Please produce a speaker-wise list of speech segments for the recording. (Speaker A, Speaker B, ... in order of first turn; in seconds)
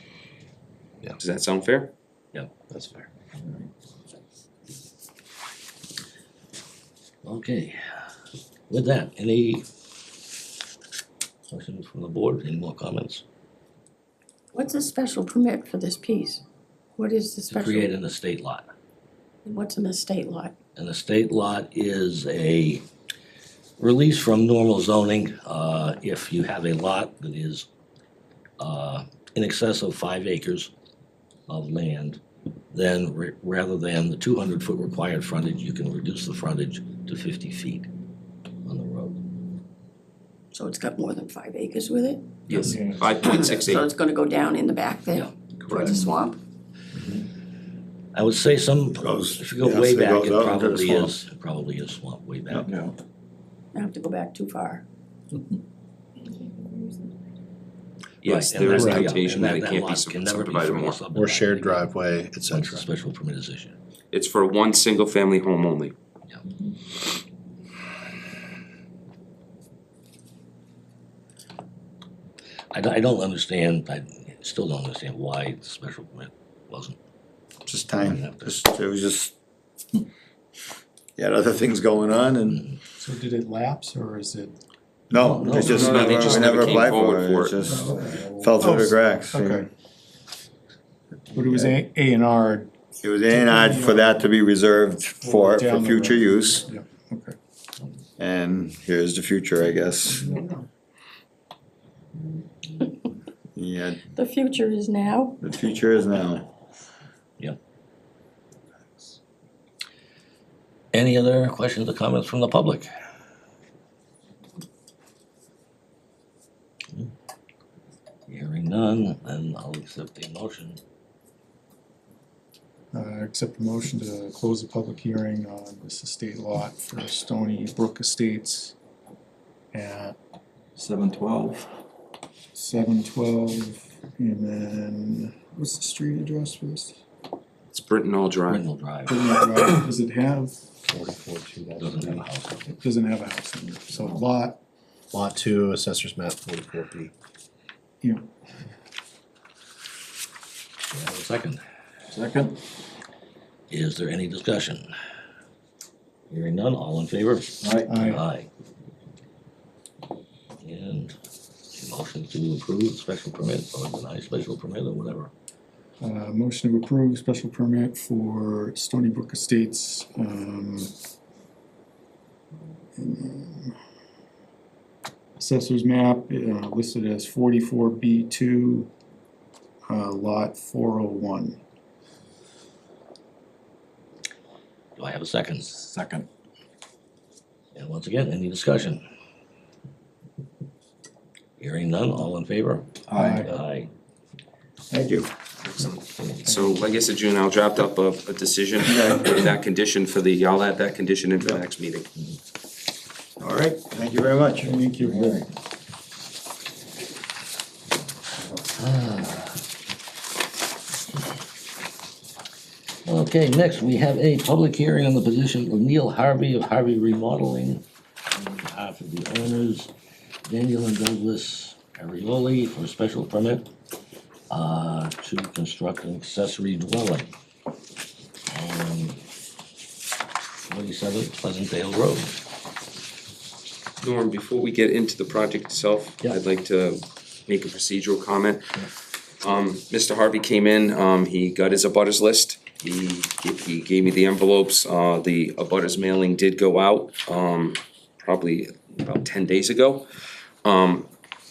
Speaker A: 1.2-1.9, 42.5-43.9, 58.2-61.0, 64.1-65.9, 85.5-87.7, 137.7-138.6, 195.6-202.1, 234.0-238.7, 239.4-250.1, 250.6-251.1
Speaker B: 2.3-2.6, 7.2-7.8, 8.7-9.6, 11.5-13.2, 17.5-18.7, 20.8-22.8, 23.8-27.7, 28.6-30.7, 31.5-32.2, 32.7-37.9, 38.6-39.2, 48.1-52.7, 58.2-63.8, 72.7-77.0, 78.0-78.6, 82.5-82.8, 85.1-86.9, 110.9-112.9, 118.3-120.8, 138.4-139.2, 141.8-142.7, 150.9-151.6, 153.7-154.9, 156.3-158.5, 160.6-161.1, 161.7-165.3, 184.9-185.7, 187.7-189.0, 191.6-193.9, 208.8-209.6, 213.0-219.9, 220.4-223.7, 224.5-227.3, 228.5-229.2, 230.7-232.4
Speaker C: 14.5-16.4, 17.0-17.9, 19.4-20.5, 40.5-42.2, 43.2-46.4, 53.7-54.8, 56.4-56.8, 104.1-105.4
Speaker D: 42.6-43.1, 52.6-53.0, 130.8-131.7, 152.1-152.6, 157.6-157.9, 185.6-186.3, 193.1-193.6, 205.0-205.4
Speaker E: 49.0-51.2, 77.7-79.3, 81.2-82.6, 85.1-89.7, 91.4-91.8, 93.0-96.7, 98.2-100.3, 103.5-104.0, 105.4-106.5, 194.9-195.3, 198.9-199.2, 203.4-204.8
Speaker F: 58.7-59.1, 61.1-62.9, 140.9-142.3, 145.1-147.1
Speaker G: 83.0-84.6, 85.5-85.9, 87.6-89.7, 91.3-92.7, 93.2-94.3, 95.2-97.3, 100.1-100.6, 122.9-128.8, 129.7-130.2, 132.5-137.0, 139.0-140.6, 142.7-144.6, 148.0-148.3, 157.8-158.2, 166.0-170.9, 172.9-173.8, 175.4-178.9, 179.9-181.6, 193.1-193.6, 196.5-196.8, 204.6-205.4